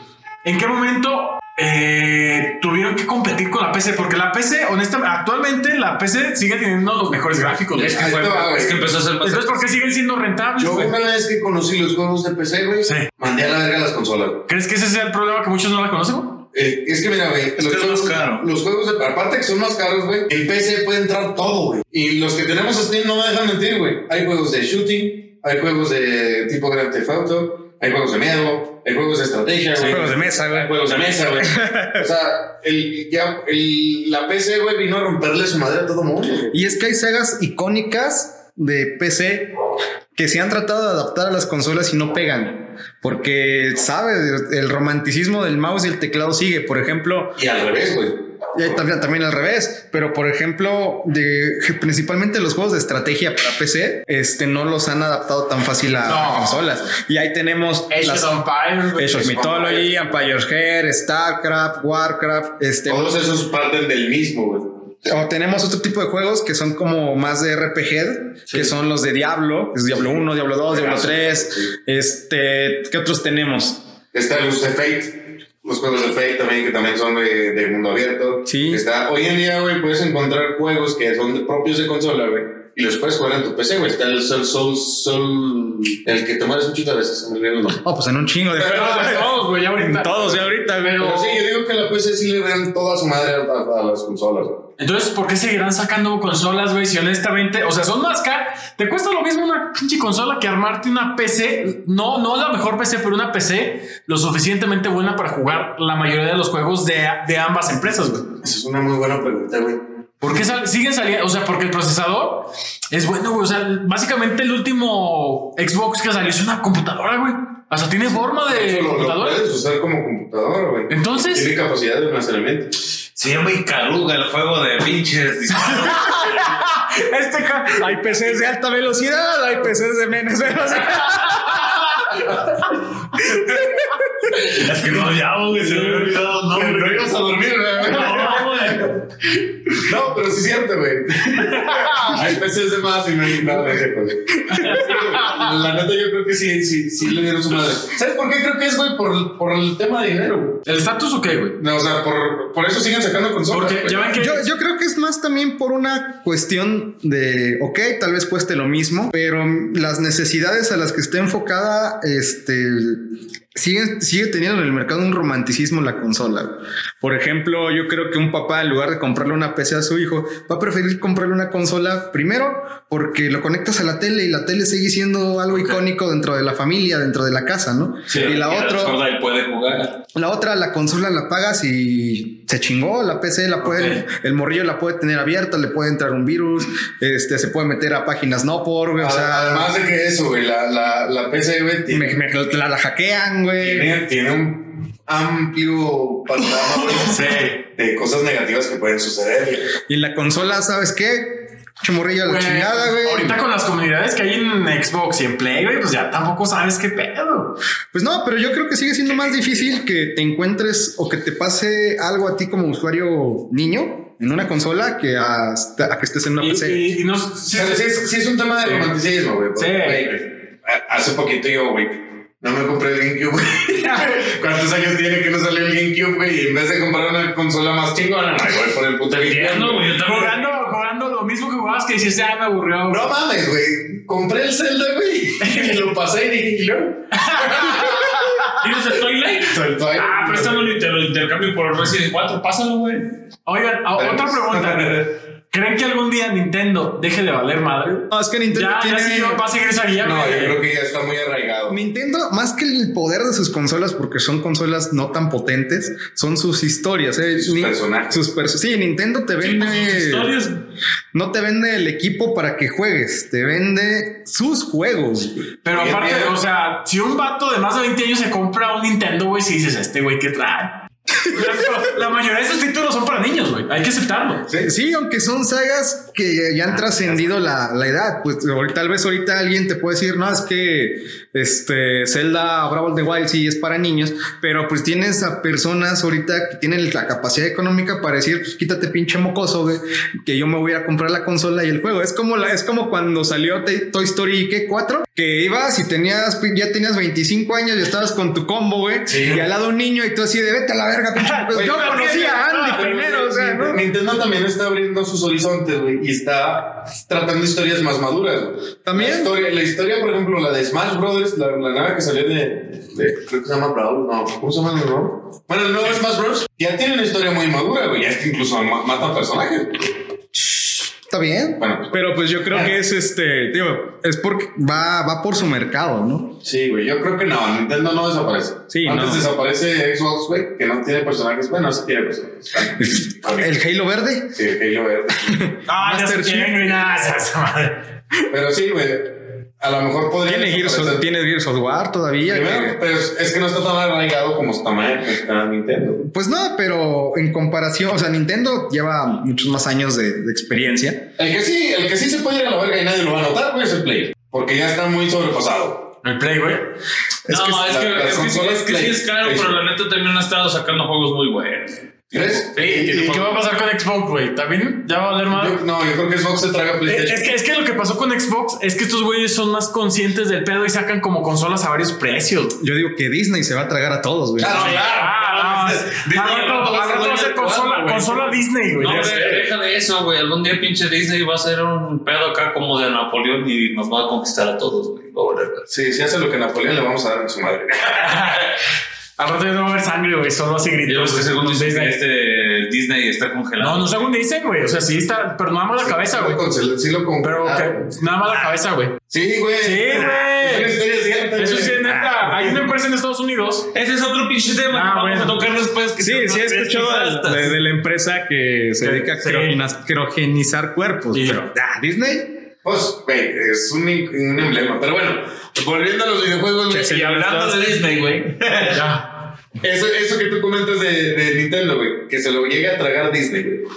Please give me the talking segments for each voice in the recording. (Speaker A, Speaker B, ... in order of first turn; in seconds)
Speaker A: 0.4-8.0, 9.2-10.9, 14.5-16.3, 56.0-56.6, 57.9-59.5, 88.6-91.4, 94.8-108.2, 110.2-119.4, 120.9-121.5, 125.5-128.3, 131.1-132.3, 137.9-138.4, 141.5-142.2, 144.5-145.5, 150.7-151.6, 153.5-154.5, 183.6-184.0, 197.0-197.6, 202.2-207.5, 216.4-217.9, 218.6-218.9, 219.6-220.1, 230.0-233.1, 235.4-235.8, 237.1-238.7, 243.4-250.6, 265.6-270.7, 271.2-274.4, 301.2-302.7, 335.7-337.7, 356.0-356.6, 362.6-365.6, 366.8-372.5, 374.9-379.4, 387.9-388.4, 389.2-391.9, 393.6-396.4, 397.2-398.9, 399.6-400.8, 401.4-403.7, 404.7-405.4, 408.8-409.6, 411.1-411.4, 418.6-419.0
Speaker B: 7.7-9.7, 17.6-18.4, 123.2-126.6, 134.5-137.1, 137.8-138.9, 178.1-179.9, 229.1-230.4, 238.5-243.1, 259.4-260.5, 357.3-363.0, 374.5-375.1, 378.8-385.7, 390.9-394.1, 401.8-402.6, 403.7-407.5, 416.7-418.8
Speaker C: 7.9-8.8, 10.6-14.4, 16.5-36.5, 47.4-48.8, 59.2-60.0, 62.9-64.6, 70.7-71.7, 74.1-87.8, 88.6-89.2, 91.0-94.5, 108.4-109.8, 118.1-122.7, 135.6-138.9, 139.7-150.6, 151.6-154.2, 189.0-192.2, 193.6-199.7, 217.5-230.0, 232.9-238.2, 239.4-240.8, 244.0-245.1, 250.0-251.8, 257.3-258.2, 265.7-266.4, 299.1-299.4, 301.5-319.9, 321.6-322.7, 326.4-333.5, 334.3-335.5, 338.3-339.1, 339.6-341.0, 342.3-346.0, 351.2-355.8, 357.3-359.6, 362.1-363.3, 365.3-367.3, 374.4-378.3, 385.7-388.4, 395.8-397.9, 399.1-401.8, 412.6-417.4, 419.6-423.6
Speaker D: 29.8-30.7, 31.4-32.0, 36.5-39.5, 40.1-47.4, 48.5-58.3, 58.9-63.1, 65.0-73.8, 78.5-78.8, 87.8-91.1, 127.8-131.9, 154.2-163.0, 163.5-179.0, 180.1-189.7, 191.9-193.9, 199.9-203.4, 207.9-216.8, 248.1-249.4, 251.7-260.3, 261.1-265.3, 274.6-303.8, 308.8-309.3, 321.1-326.3, 328.7-329.2, 332.8-334.3, 335.2-336.8, 340.2-342.8, 346.0-351.0, 372.6-374.8, 406.0-412.2, 416.7-417.7